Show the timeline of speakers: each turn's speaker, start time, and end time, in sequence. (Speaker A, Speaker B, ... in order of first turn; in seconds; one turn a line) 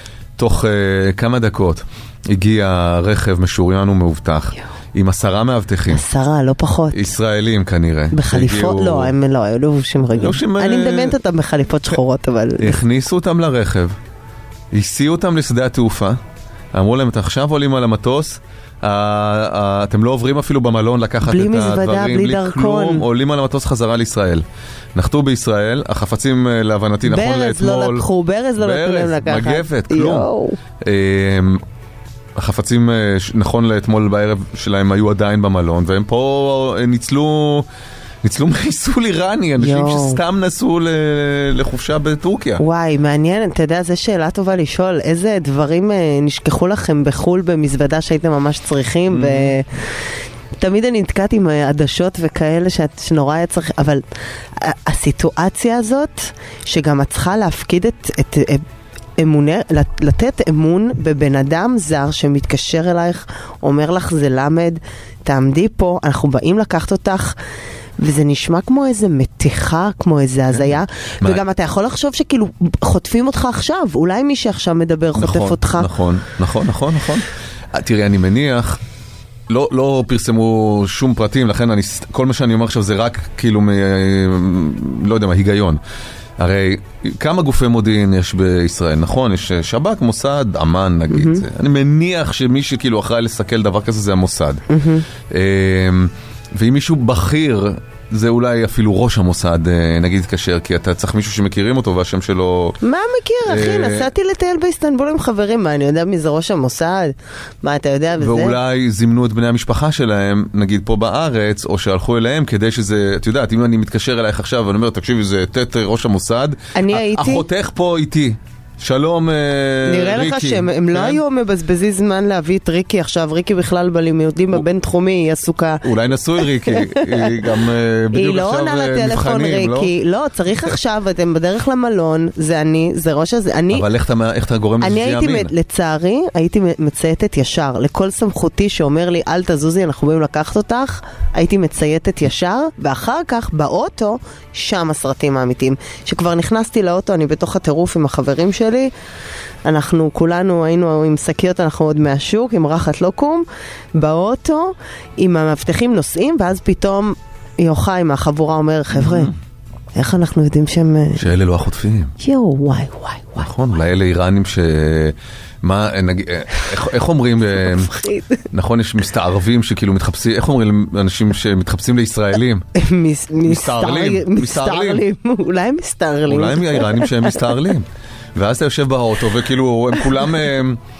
Speaker A: 0.4-6.0
Speaker B: 5.9-7.1
Speaker A: 6.9-9.1
Speaker B: 8.1-12.8
Speaker A: 10.2-11.2
Speaker A: 12.6-13.9
Speaker A: 14.7-16.2
Speaker A: 16.7-24.4
Speaker B: 21.2-23.0
Speaker A: 24.9-30.3
Speaker B: 27.1-30.6
Speaker A: 30.8-31.6
Speaker A: 32.4-37.7
Speaker A: 38.2-42.6
Speaker B: 39.6-40.2
Speaker B: 42.6-50.0
Speaker A: 49.1-49.5
Speaker B: 50.6-54.0
Speaker B: 54.6-58.6
Speaker B: 59.2-67.3
Speaker B: 68.0-75.9
Speaker A: 70.5-71.4
Speaker A: 75.1-78.8
Speaker A: 79.5-85.8
Speaker A: 86.4-94.6
Speaker B: 91.1-91.4
Speaker B: 94.7-95.0
Speaker A: 95.3-102.8
Speaker B: 102.8-108.6
Speaker A: 103.5-104.1
Speaker A: 108.2-121.2
Speaker B: 116.7-117.4
Speaker B: 119.8-125.8
Speaker A: 125.8-129.9
Speaker B: 126.7-127.4
Speaker B: 128.1-133.8
Speaker A: 133.7-135.5
Speaker B: 134.8-148.9
Speaker B: 149.6-159.3
Speaker A: 158.9-159.3
Speaker B: 159.9-161.2
Speaker A: 161.2-162.1
Speaker B: 162.2-163.5
Speaker A: 163.4-167.9
Speaker B: 167.7-168.4
Speaker A: 168.5-172.6
Speaker B: 172.8-177.3
Speaker A: 173.4-175.0
Speaker A: 176.3-180.8